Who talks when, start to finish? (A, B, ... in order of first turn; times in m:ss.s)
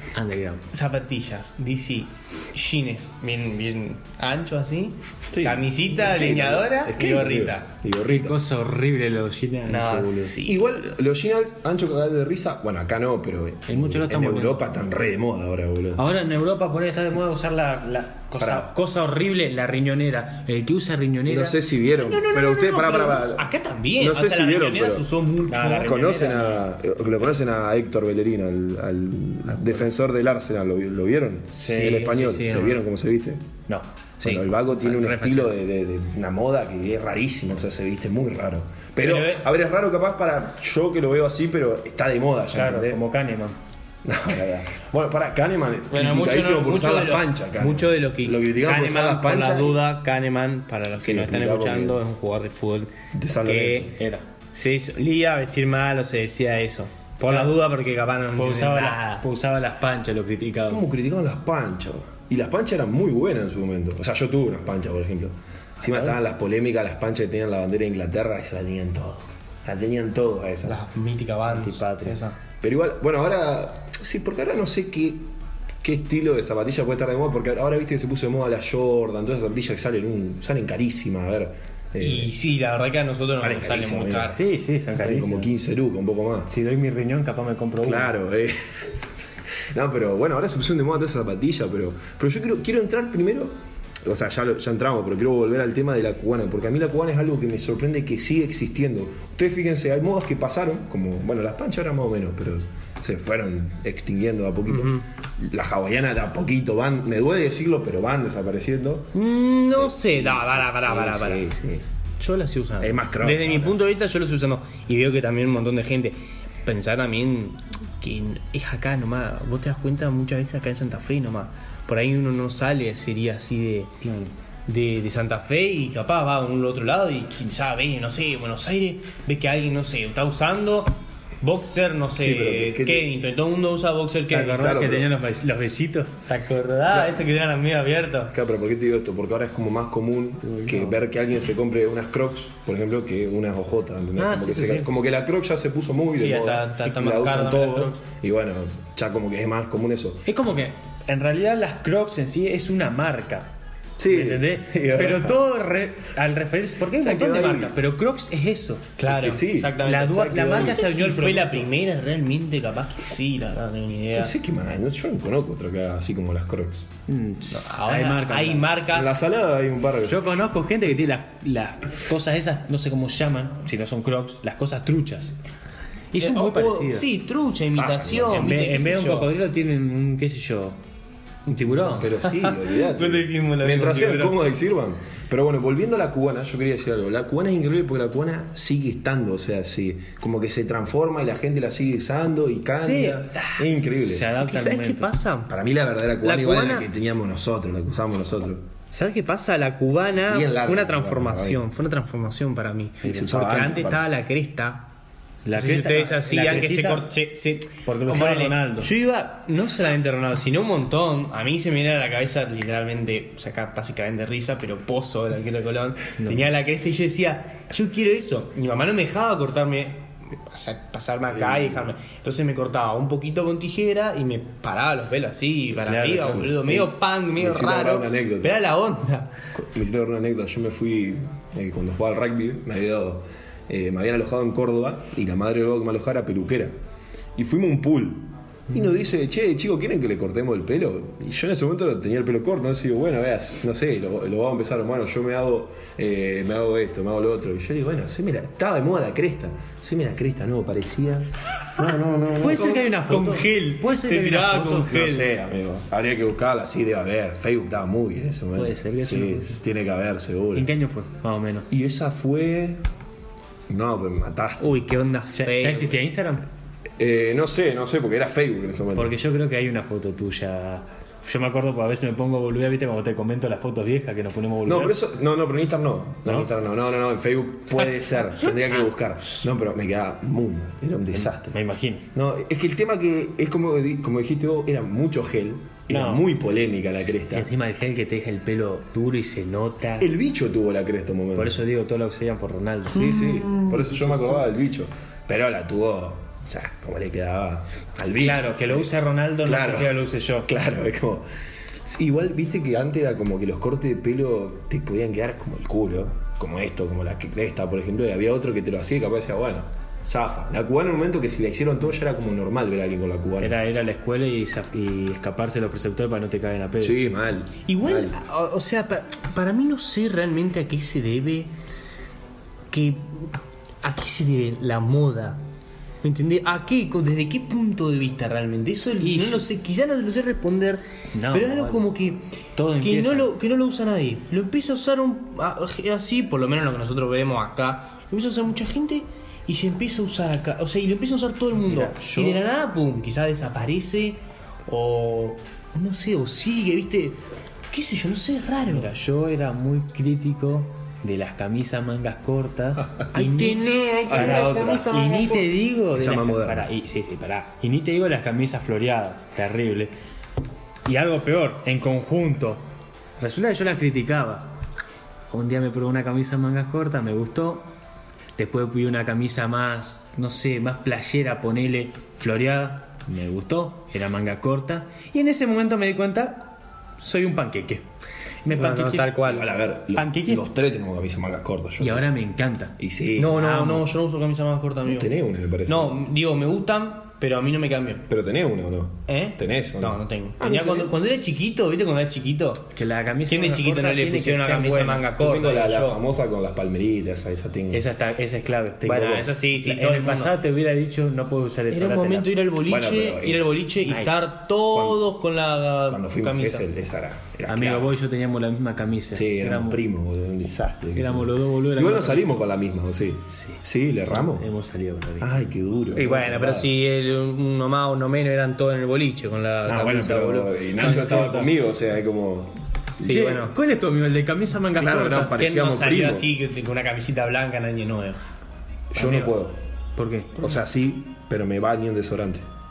0:00.2-0:00.6 A
0:00.7-0:07.7 B
0:05.3-0:08.4 C
0:08.1-0:10.3 A
0:09.7-0:10.7 B
0:10.4-0:16.0 C
0:13.7-0:14.6 A
0:16.0-0:21.6 A
0:18.4-0:18.7 C
0:21.3-0:23.5 C
0:22.0-0:26.6 B
0:24.0-0:25.1 C
0:25.5-0:26.6 A
0:25.8-0:33.5 C
0:29.5-0:29.9 B
0:31.5-0:32.2 A
0:31.6-0:32.8 B
0:34.2-0:43.0 C
0:34.2-0:35.6 B
0:39.0-0:39.5 B
0:42.5-0:43.6 A
0:44.0-0:49.8 C
0:45.9-0:52.9 B
0:51.0-0:52.0 C
0:53.1-0:53.9 C
0:53.4-0:53.9 B
0:54.0-0:54.2 A
0:54.5-0:59.2 B
0:57.3-0:57.6 A
0:58.4-1:00.8 A
1:00.7-1:10.8 C
1:05.8-1:06.2 A
1:10.7-1:12.4 B
1:11.5-1:12.1 A
1:12.6-1:15.2 C
1:15.8-1:22.3 C
1:22.0-1:24.4 B
1:23.4-1:24.3 C
1:24.3-1:25.5 A
1:25.0-1:26.5 C
1:26.5-1:28.1 A
1:27.8-1:28.9 C
1:29.7-1:49.1 C
1:44.7-1:45.0 B
1:49.1-1:51.5 B
1:49.7-1:51.8 C
1:52.2-2:04.0 B
1:52.8-1:53.8 C
2:04.0-2:04.3 A
2:04.7-2:14.7 B
2:12.2-2:13.1 C
2:14.3-2:16.1 A
2:14.6-2:15.1 C
2:16.3-2:18.3 B
2:16.9-2:17.2 C
2:18.3-2:30.2 C
2:20.5-2:21.0 A
2:24.2-2:24.9 A
2:26.2-2:28.0 B
2:30.3-2:33.5 A
2:34.0-2:35.4 C
2:34.1-2:38.9 A
2:36.9-2:37.8 C
2:39.0-2:44.3 B
2:39.0-2:40.9 C
2:39.8-2:41.7 A
2:44.2-2:46.9 C
2:47.1-2:48.7 A
2:47.5-2:49.2 B
2:48.9-2:50.2 C
2:50.0-2:55.4 A
2:56.1-2:57.1 A
2:56.2-2:59.3 B
2:57.6-2:58.6 C
2:58.3-3:00.8 A
3:01.5-3:02.2 A
3:01.7-3:04.4 B
3:01.9-3:14.3 C
3:12.8-3:13.2 A
3:13.4-3:13.6 B
3:14.0-3:15.1 A
3:14.4-3:15.5 B
3:15.5-3:18.6 C
3:16.2-3:16.9 B
3:18.9-3:24.9 B
3:20.2-3:21.6 C
3:23.0-3:23.8 A
3:23.1-3:24.1 C
3:25.4-3:27.1 A
3:25.5-3:49.3 B
3:27.8-3:28.9 A
3:36.2-3:36.5 A
3:41.3-3:41.9 C
3:45.9-3:46.7 A
3:46.5-3:48.6 C
3:49.5-3:56.7 C
3:57.4-4:12.7 C
4:12.3-4:15.3 B
4:12.4-4:15.0 A
4:14.9-4:20.7 C
4:18.5-4:19.6 A
4:20.5-4:21.7 A
4:21.7-4:22.8 C
4:23.7-4:24.8 C
4:24.6-4:26.0 B
4:25.3-4:26.4 A
4:27.0-4:29.2 C
4:29.0-4:35.0 A
4:34.6-4:41.6 C
4:41.1-4:42.1 A
4:42.2-4:47.5 C
4:45.9-4:46.3 A
4:47.1-4:50.1 A
4:50.0-4:51.6 C
4:51.4-4:54.5 A
4:52.9-4:58.9 C
4:58.2-5:00.5 A
4:59.4-5:01.2 C
5:01.8-5:13.6 C
5:13.4-5:17.0 A
5:16.8-5:18.2 C
5:17.7-5:21.5 B
5:22.7-5:25.4 B
5:26.0-5:32.2 B
5:29.0-5:29.4 A
5:31.2-5:31.9 A
5:32.6-5:33.3 A
5:32.8-5:47.2 B
5:41.6-5:42.4 A
5:47.7-5:48.9 B
5:48.6-5:59.9 A
5:53.1-5:55.4 B
5:54.1-5:56.7 C
6:00.9-6:02.6 A
6:03.2-6:04.5 A
6:05.3-6:07.7 A
6:08.4-6:17.8 A
6:18.4-6:19.1 A
6:18.5-6:19.5 B
6:19.2-6:22.1 C
6:19.9-6:20.4 A
6:21.8-6:22.8 A
6:22.8-6:23.6 C
6:23.2-6:25.1 B
6:23.4-6:23.9 A
6:24.9-6:26.0 C
6:25.7-6:28.1 B
6:28.1-6:30.9 C
6:29.1-6:32.7 B
6:32.7-6:35.1 A
6:33.3-6:36.0 B
6:35.2-6:37.8 C
6:37.7-6:42.3 A
6:38.8-6:39.4 C
6:38.8-6:40.4 B
6:41.7-6:46.6 B
6:42.6-6:43.5 C
6:43.9-6:45.0 A
6:45.9-6:47.9 C
6:47.5-6:49.8 A
6:49.1-6:54.5 C
6:51.0-6:52.4 A
6:53.4-6:55.4 A
6:55.2-6:56.7 C
6:55.9-7:01.4 B
6:59.7-7:02.6 C
7:00.8-7:01.5 A
7:03.0-7:03.5 B
7:03.0-7:05.4 A
7:04.8-7:06.3 C
7:05.4-7:08.2 B
7:08.9-7:09.6 C
7:09.0-7:09.3 A
7:10.0-7:10.4 A
7:10.4-7:12.4 C